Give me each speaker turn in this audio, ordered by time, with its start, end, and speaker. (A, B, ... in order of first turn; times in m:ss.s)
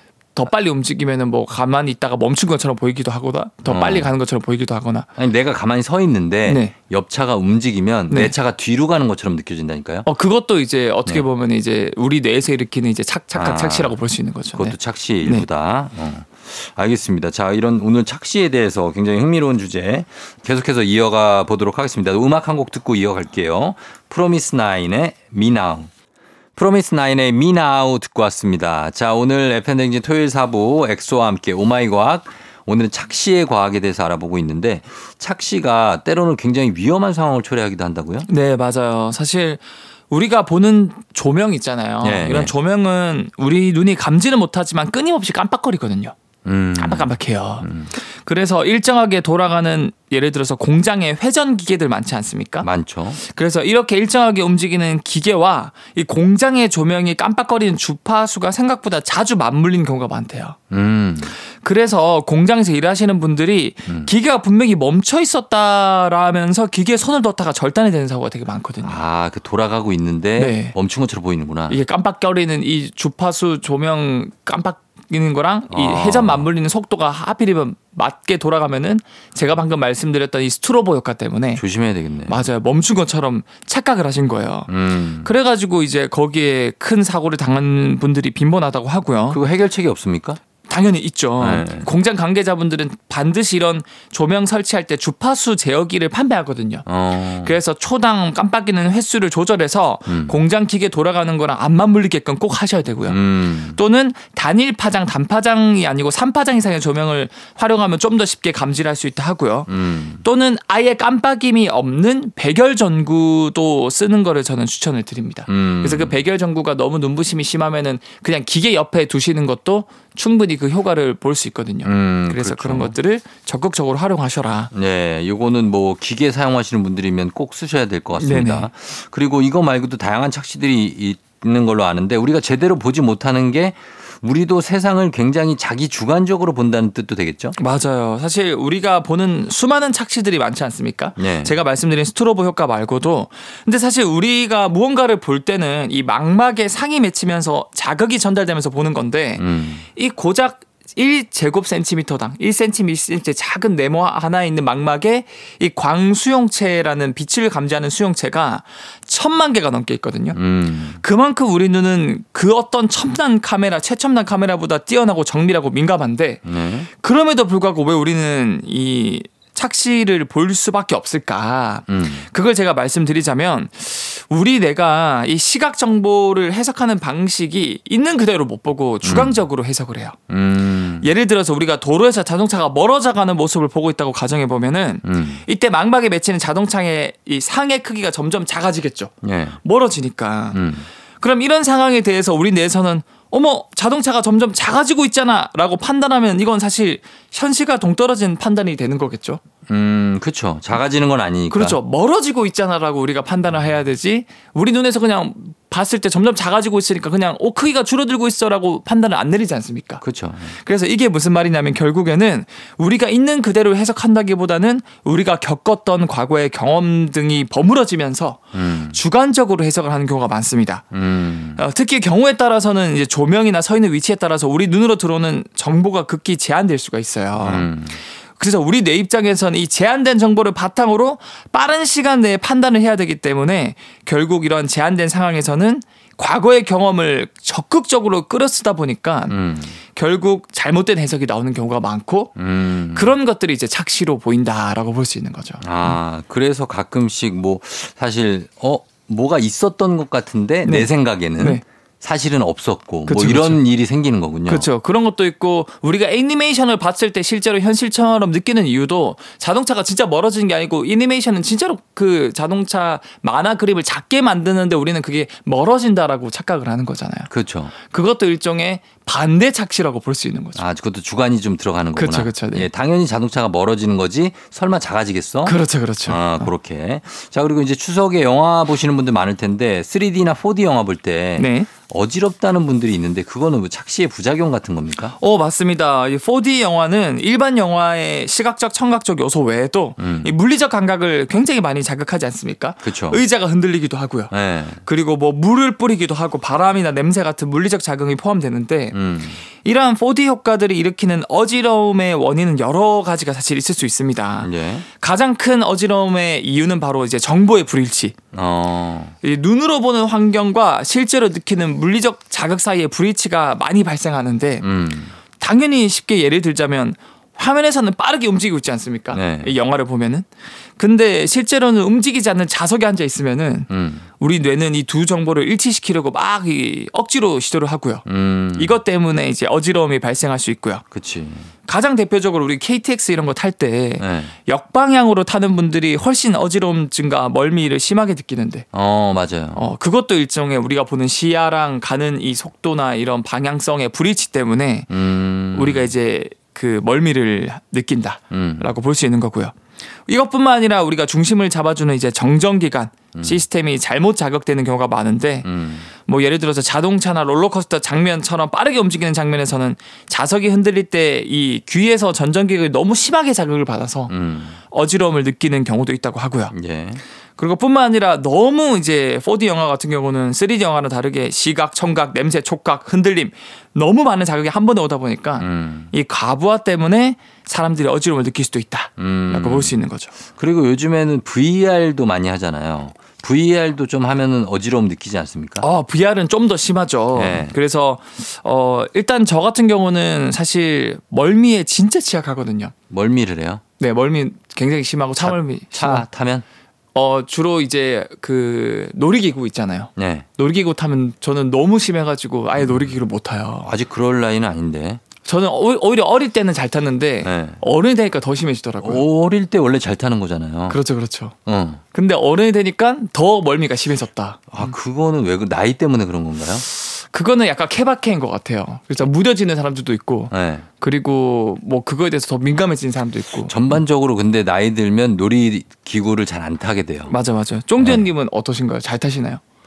0:00.4-0:05.1 A
0:03.7-0:04.1 B
0:05.2-0:10.1 B
0:06.4-0:06.7 A
0:10.0-0:15.5 A
0:13.3-0:14.0 B
0:14.6-0:25.9 B
0:26.6-0:38.3 B
0:38.3-0:46.2 A
0:42.0-0:42.5 B
0:46.4-0:47.9 B
0:46.8-1:00.6 A
0:52.6-0:53.2 B
1:00.7-1:01.4 B
1:01.4-1:09.0 A
1:08.8-1:11.8 B
1:10.4-1:10.8 A
1:11.7-1:21.6 A
1:15.7-1:16.5 B
1:21.6-1:22.4 B
1:22.3-1:24.7 A
1:24.7-1:25.3 B
1:25.2-1:29.4 A
1:29.3-1:30.4 B
1:30.7-1:43.2 A
1:31.4-1:31.9 B
1:36.9-1:37.6 B
1:40.1-1:40.4 B
1:43.1-1:43.8 B
1:43.8-1:49.7 A
1:49.7-1:50.3 B
1:50.2-2:04.7 A
1:55.5-1:56.2 B
2:01.8-2:03.0 B
2:04.7-2:17.6 B
2:08.2-2:08.7 A
2:17.6-2:40.4 A
2:21.2-2:21.6 B
2:29.4-2:29.8 B
2:40.3-2:41.0 B
2:41.0-3:00.2 A
2:46.4-2:46.9 B
2:51.9-2:52.3 B
2:59.0-2:59.4 B
3:00.3-3:01.1 B
3:01.0-3:10.6 A
3:05.0-3:05.4 B
3:09.2-3:09.6 B
3:10.5-3:10.9 B
3:11.2-3:19.4 A
3:19.7-3:21.8 B
3:21.5-3:30.0 A
3:30.0-3:30.6 B
3:30.6-3:40.9 A
3:38.5-3:39.0 B
3:40.9-3:41.6 B
3:41.6-3:47.7 A
3:47.4-3:48.0 B
3:48.4-3:59.4 A
3:59.3-3:59.8 B
3:59.9-4:02.4 A
4:02.4-4:03.2 B
4:02.9-4:06.0 A
4:05.6-4:14.7 B
4:10.6-4:11.6 A
4:13.1-4:13.6 A
4:14.5-4:27.3 A
4:27.3-4:27.7 B
4:27.8-4:30.6 A
4:30.6-4:45.2 B
4:32.0-4:32.7 A
4:35.4-4:36.5 A
4:41.4-4:41.7 A
4:45.2-4:59.0 A
4:50.0-4:50.3 B
4:52.8-4:53.2 B
4:54.3-4:54.8 B
4:58.9-4:59.4 B
4:59.5-5:08.2 A
5:04.4-5:04.9 B
5:08.3-5:09.2 B
5:09.2-5:14.7 A
5:14.6-5:15.2 B
5:15.4-5:30.8 A
5:19.1-5:19.6 B
5:23.7-5:24.1 B
5:28.1-5:28.8 B
5:30.9-5:31.5 B
5:31.6-5:38.7 A
5:34.0-5:34.3 B
5:38.7-5:39.6 B
5:39.5-5:44.9 A
5:44.9-5:45.9 B
5:45.5-5:49.5 A
5:48.3-5:48.7 B
5:50.1-6:04.1 A
5:53.1-5:53.4 B
5:55.4-5:55.9 B
6:04.1-6:04.6 B
6:04.7-6:06.6 A
6:06.5-6:07.0 B
6:07.4-6:20.2 A
6:15.4-6:15.9 B
6:19.0-6:19.8 B
6:20.4-6:25.7 B
6:25.6-6:32.7 A
6:27.2-6:27.6 B
6:32.9-6:33.6 B
6:33.8-6:36.1 A
6:35.2-6:36.4 B
6:36.9-6:43.7 A
6:40.0-6:40.3 B
6:42.6-6:43.0 B
6:43.6-6:45.0 B
6:45.2-6:49.0 A
6:47.2-6:47.6 B
6:48.8-6:50.8 B
6:50.7-6:51.4 A
6:51.5-6:51.8 B
6:51.9-6:54.7 A
6:54.5-6:56.6 B
6:56.9-7:03.8 A
7:00.3-7:00.6 B
7:03.5-7:07.2 B
7:07.1-7:09.4 A
7:07.8-7:08.1 B